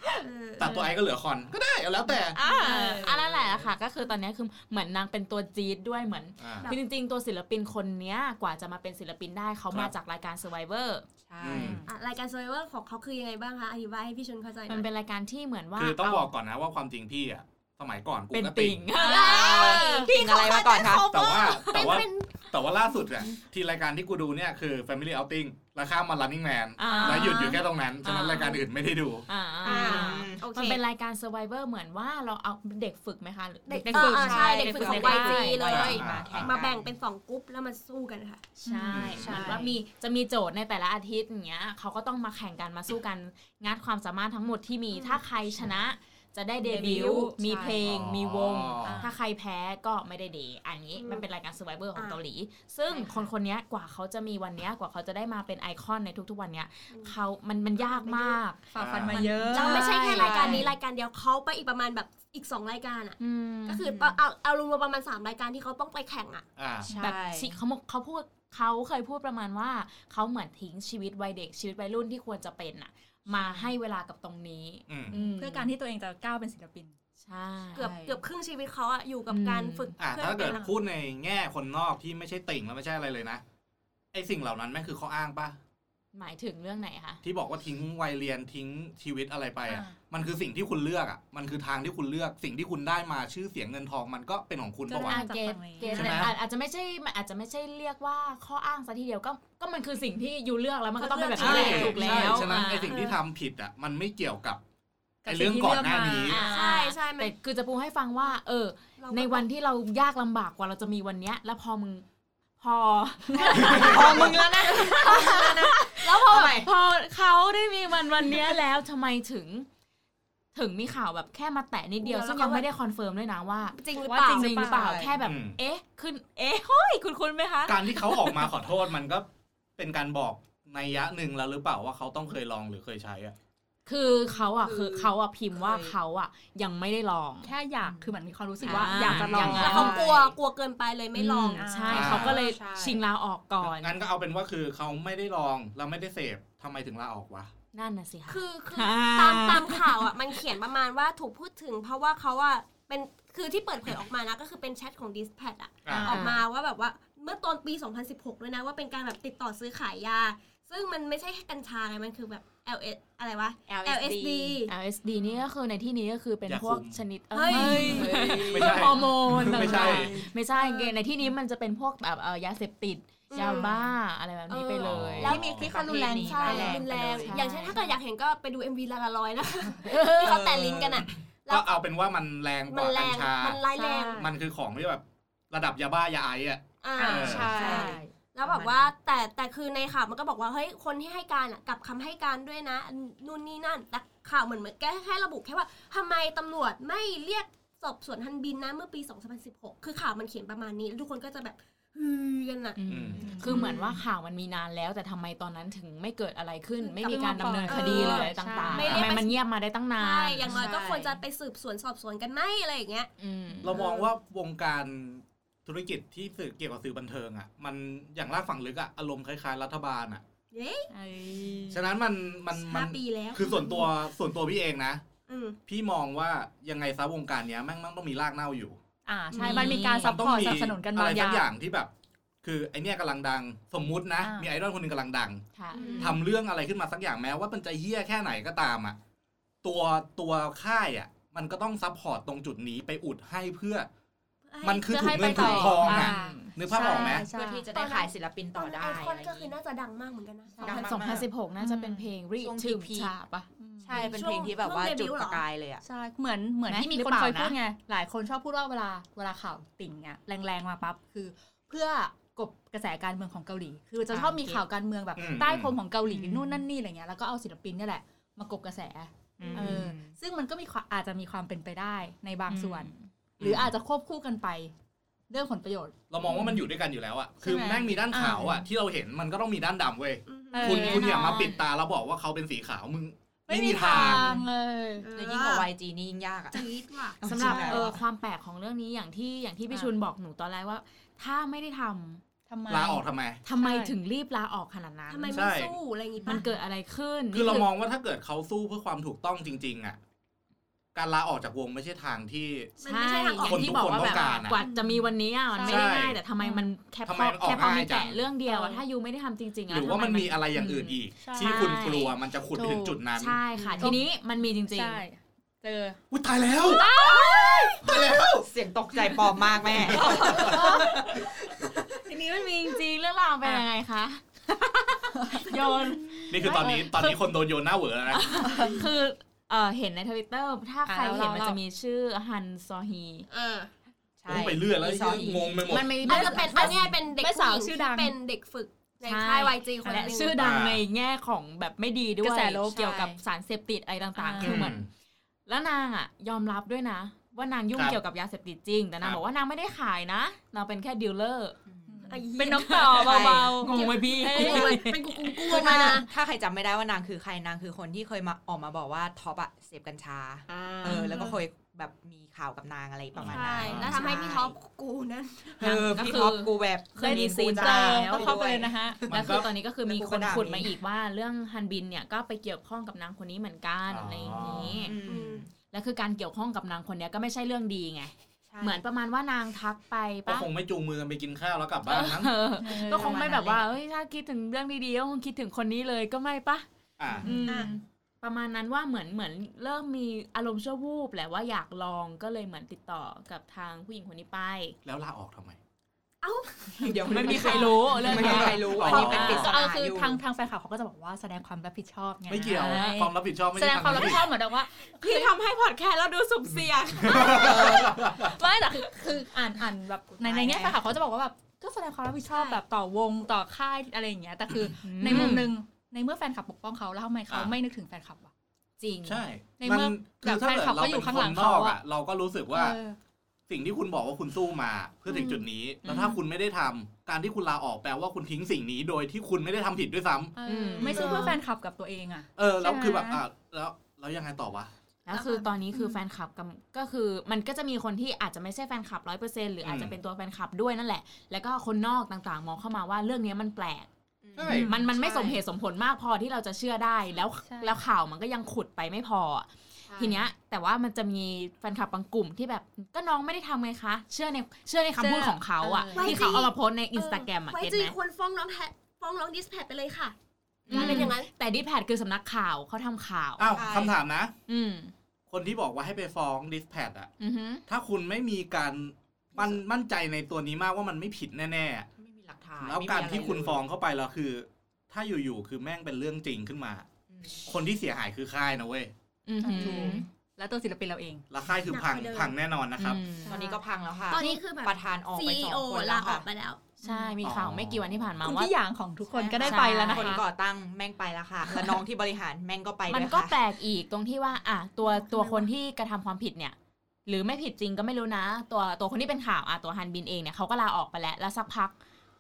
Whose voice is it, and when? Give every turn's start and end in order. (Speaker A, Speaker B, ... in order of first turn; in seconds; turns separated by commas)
Speaker A: 0.2-0.9, Speaker B: 0.6-2.4, Speaker C: 2.3-11.1, Speaker D: 2.6-3.7, Speaker B: 6.4-6.7, Speaker D: 11.3-11.8, Speaker B: 11.4-11.8, Speaker E: 11.6-11.9, Speaker A: 11.9-14.9, Speaker C: 14.7-16.3, Speaker B: 15.8-18.8, Speaker C: 18.3-21.0, Speaker E: 18.9-20.1, Speaker A: 19.0-22.5, Speaker D: 19.3-21.1, Speaker B: 21.1-29.3, Speaker C: 26.8-28.6, Speaker E: 26.8-27.6, Speaker C: 29.3-35.7, Speaker D: 29.6-30.4, Speaker A: 29.6-30.8, Speaker A: 33.7-38.4, Speaker E: 33.9-35.6, Speaker D: 34.1-36.9, Speaker B: 35.7-36.6, Speaker C: 38.6-58.6, Speaker E: 38.7-39.6, Speaker B: 38.9-39.6, Speaker D: 39.1-39.7, Speaker A: 44.9-45.2, Speaker D: 46.7-47.9, Speaker E: 46.7-47.3, Speaker B: 47.9-49.1, Speaker E: 48.8-49.2, Speaker A: 51.0-51.3, Speaker A: 52.0-52.2, Speaker A: 57.8-58.4, Speaker E: 58.7-59.9, Speaker B: 58.8-59.3, Speaker A: 59.1-66.5, Speaker C: 59.4-60.7, Speaker D: 59.5-60.7, Speaker C: 63.2-63.8, Speaker D: 63.9-64.2, Speaker B: 66.6-66.9, Speaker D: 66.9-67.6, Speaker C: 67.0-75.7, Speaker E: 73.4-73.6, Speaker B: 74.9-75.2, Speaker E: 75.1-77.0, Speaker C: 77.2-78.0, Speaker A: 77.8-80.7, Speaker E: 77.8-78.2, Speaker C: 79.3-80.0, Speaker B: 80.0-83.4, Speaker B: 84.1-85.6, Speaker C: 86.1-87.2, Speaker B: 87.2-95.2, Speaker E: 89.7-90.0, Speaker E: 94.9-96.3, Speaker C: 95.0-103.1, Speaker B: 95.9-96.3, Speaker A: 101.0-102.4, Speaker B: 101.4-104.6, Speaker E: 101.5-103.2, Speaker E: 105.2-106.7, Speaker B: 105.3-106.4, Speaker C: 106.3-112.0, Speaker A: 106.4-107.3, Speaker A: 109.0-109.5, Speaker C: 112.6-119.7, Speaker E: 113.3-114.1, Speaker D: 113.6-116.7, Speaker E: 114.8-115.7, Speaker C: 120.5-128.5, Speaker A: 122.0-122.7, Speaker A: 123.8-124.7, Speaker E: 124.0-125.0, Speaker D: 124.7-125.2, Speaker B: 125.2-125.6, Speaker B: 127.7-133.4, Speaker C: 133.9-137.5, Speaker D: 134.5-136.0, Speaker E: 137.4-139.9, Speaker D: 137.8-138.1, Speaker D: 138.6-140.3, Speaker C: 138.7-140.0, Speaker B: 138.7-139.8, Speaker A: 139.5-141.7, Speaker C: 141.1-144.0, Speaker E: 141.6-142.4, Speaker B: 141.9-142.4, Speaker D: 141.9-143.0, Speaker B: 143.6-147.5, Speaker C: 147.7-150.2, Speaker A: 148.3-164.7, Speaker B: 155.8-156.2, Speaker C: 156.0-156.4, Speaker D: 163.7-164.6, Speaker C: 164.7-175.4, Speaker B: 166.5-167.0, Speaker A: 167.3-168.4, Speaker E: 167.5-168.4, Speaker D: 167.8-169.2, Speaker B: 168.5-170.3, Speaker A: 169.4-171.0, Speaker E: 169.5-170.1, Speaker A: 173.3-173.7, Speaker D: 173.4-173.8, Speaker A: 174.5-181.8, Speaker B: 174.8-175.7, Speaker D: 175.2-177.3, Speaker E: 176.2-177.9, Speaker C: 176.4-177.8, Speaker D: 180.2-181.0, Speaker B: 181.0-183.6, Speaker A: 182.7-184.3, Speaker E: 183.7-184.3, Speaker B: 184.2-187.5, Speaker A: 186.8-202.8, Speaker E: 187.0-188.1, Speaker D: 187.1-188.9, Speaker C: 202.8-210.6, Speaker B: 202.9-203.3, Speaker D: 203.2-204.0, Speaker E: 203.2-203.8, Speaker E: 206.8-209.2, Speaker A: 207.7-209.4, Speaker B: 208.8-209.1, Speaker A: 210.0-213.1, Speaker D: 210.5-211.2, Speaker C: 213.2-213.8, Speaker B: 213.6-220.2, Speaker A: 213.8-214.0, Speaker A: 220.5-220.9, Speaker E: 220.9-221.9, Speaker B: 221.7-225.0, Speaker A: 222.5-223.9, Speaker A: 225.3-225.6, Speaker B: 225.7-228.8, Speaker E: 229.1-231.5, Speaker C: 229.3-230.2, Speaker B: 229.4-231.9, Speaker B: 232.4-235.4, Speaker E: 234.2-234.5, Speaker C: 235.6-236.2, Speaker A: 235.7-236.1, Speaker D: 235.7-236.2, Speaker B: 236.0-239.0, Speaker B: 239.6-243.9, Speaker A: 244.5-245.7, Speaker B: 244.6-247.3, Speaker E: 244.9-247.7, Speaker C: 245.2-247.2, Speaker D: 246.9-249.5, Speaker A: 247.7-250.9, Speaker E: 250.5-251.0, Speaker D: 250.6-251.3, Speaker C: 250.6-253.5, Speaker E: 251.6-252.1, Speaker D: 252.4-253.1, Speaker E: 253.6-254.1, Speaker D: 253.8-255.8, Speaker A: 253.9-255.4, Speaker E: 255.8-274.7, Speaker C: 256.7-257.6, Speaker C: 264.1-264.6, Speaker B: 265.2-265.8, Speaker D: 266.1-266.5, Speaker C: 269.4-269.9, Speaker D: 269.4-270.2, Speaker C: 272.5-273.1, Speaker B: 273.4-273.8, Speaker E: 275.3-276.6, Speaker B: 276.1-284.4, Speaker E: 277.4-278.6, Speaker A: 280.3-281.1, Speaker E: 280.5-281.5, Speaker C: 280.6-281.6, Speaker E: 283.5-285.1, Speaker A: 285.0-285.7, Speaker D: 285.1-288.0, Speaker A: 286.5-287.2, Speaker C: 287.2-292.2, Speaker E: 287.4-287.9, Speaker E: 292.5-293.0, Speaker B: 292.7-293.4, Speaker C: 293.4-295.5, Speaker E: 293.6-294.0, Speaker A: 295.1-296.4, Speaker B: 295.3-295.8, Speaker C: 296.2-297.7, Speaker B: 297.3-300.0, Speaker B: 300.9-302.7, Speaker C: 302.8-312.1, Speaker A: 302.8-305.0, Speaker B: 303.4-304.6, Speaker E: 305.5-306.7, Speaker B: 305.6-306.2, Speaker B: 307.1-308.2, Speaker E: 308.5-308.8, Speaker B: 309.7-313.4, Speaker E: 311.2-312.0, Speaker E: 312.6-313.0, Speaker C: 313.2-315.0, Speaker D: 313.5-313.9, Speaker E: 314.7-316.0, Speaker B: 316.1-318.5, Speaker E: 316.6-317.9, Speaker C: 316.8-317.5, Speaker D: 318.3-322.0, Speaker B: 319.7-320.8, Speaker E: 320.3-320.9, Speaker C: 320.3-321.1, Speaker C: 322.0-327.1, Speaker E: 325.3-327.2, Speaker B: 326.3-328.7, Speaker C: 328.1-333.3, Speaker E: 328.4-328.9, Speaker E: 330.9-331.6, Speaker A: 333.3-333.7, Speaker D: 334.2-335.6, Speaker B: 334.3-336.0, Speaker C: 335.6-336.8, Speaker E: 336.0-338.2, Speaker A: 336.0-340.4, Speaker C: 339.0-344.9, Speaker E: 339.8-340.2, Speaker B: 340.4-340.8, Speaker E: 342.2-343.2, Speaker E: 344.2-344.7, Speaker B: 344.4-344.9, Speaker C: 345.5-351.6, Speaker D: 351.7-352.1, Speaker E: 351.9-354.9, Speaker A: 352.1-356.1, Speaker C: 352.4-355.9, Speaker D: 352.9-353.7, Speaker D: 354.4-354.7, Speaker D: 355.4-364.6, Speaker E: 355.5-356.0, Speaker C: 360.8-361.2, Speaker E: 360.8-361.4, Speaker B: 363.1-364.0, Speaker A: 363.2-365.8, Speaker D: 365.6-368.8, Speaker C: 365.6-368.4, Speaker E: 367.0-369.1, Speaker B: 369.1-369.5, Speaker C: 369.1-375.0, Speaker D: 369.8-370.8, Speaker B: 373.9-374.9, Speaker D: 374.5-375.5, Speaker A: 375.1-375.4, Speaker C: 375.7-380.5, Speaker D: 378.5-378.8, Speaker B: 380.3-382.3, Speaker C: 381.9-386.7, Speaker E: 382.6-383.3, Speaker D: 382.9-383.7, Speaker B: 387.0-387.3, Speaker E: 387.2-387.7, Speaker C: 387.2-394.8, Speaker B: 394.9-395.6, Speaker D: 396.8-400.2, Speaker E: 396.8-405.3, Speaker C: 397.1-399.4, Speaker B: 398.3-399.6, Speaker B: 402.3-404.3, Speaker C: 402.5-402.9, Speaker C: 403.9-404.2, Speaker C: 404.7-408.1, Speaker B: 406.6-408.4, Speaker E: 407.1-418.3, Speaker D: 407.3-407.9, Speaker D: 410.2-410.8, Speaker A: 412.3-412.6, Speaker B: 414.5-415.5, Speaker C: 414.8-415.5, Speaker B: 417.3-417.6, Speaker C: 418.8-419.2, Speaker B: 419.0-422.8, Speaker E: 419.6-421.8, Speaker E: 422.5-423.0, Speaker B: 423.5-430.9, Speaker E: 425.1-425.4, Speaker C: 425.8-426.2, Speaker E: 430.4-433.2, Speaker C: 430.4-431.4, Speaker A: 430.9-431.4, Speaker B: 432.4-434.7, Speaker C: 435.1-443.9, Speaker A: 435.1-435.4, Speaker B: 439.6-440.0, Speaker D: 444.2-445.4, Speaker B: 444.4-444.7, Speaker E: 444.4-444.8, Speaker C: 444.5-457.9, Speaker E: 447.4-447.8, Speaker D: 449.9-450.3, Speaker E: 455.0-456.3, Speaker A: 455.9-460.1, Speaker D: 460.7-461.1, Speaker A: 460.7-461.3, Speaker C: 460.7-463.6, Speaker B: 463.4-464.3, Speaker D: 463.5-463.9, Speaker C: 464.5-464.9, Speaker B: 465.3-467.1, Speaker C: 467.2-467.6, Speaker B: 467.7-471.9, Speaker D: 472.0-473.6, Speaker B: 472.6-476.9, Speaker D: 477.1-477.4, Speaker B: 477.4-478.9, Speaker C: 479.3-480.1, Speaker E: 479.4-481.2, Speaker B: 481.3-483.0, Speaker A: 481.7-482.3, Speaker C: 482.8-483.4, Speaker E: 483.3-483.6, Speaker D: 483.3-486.3, Speaker A: 484.1-486.6, Speaker C: 486.8-488.6, Speaker E: 486.9-487.1, Speaker B: 487.2-487.9, Speaker E: 488.2-490.2, Speaker D: 489.1-493.4, Speaker C: 489.4-490.2, Speaker C: 492.9-501.8, Speaker A: 494.9-495.5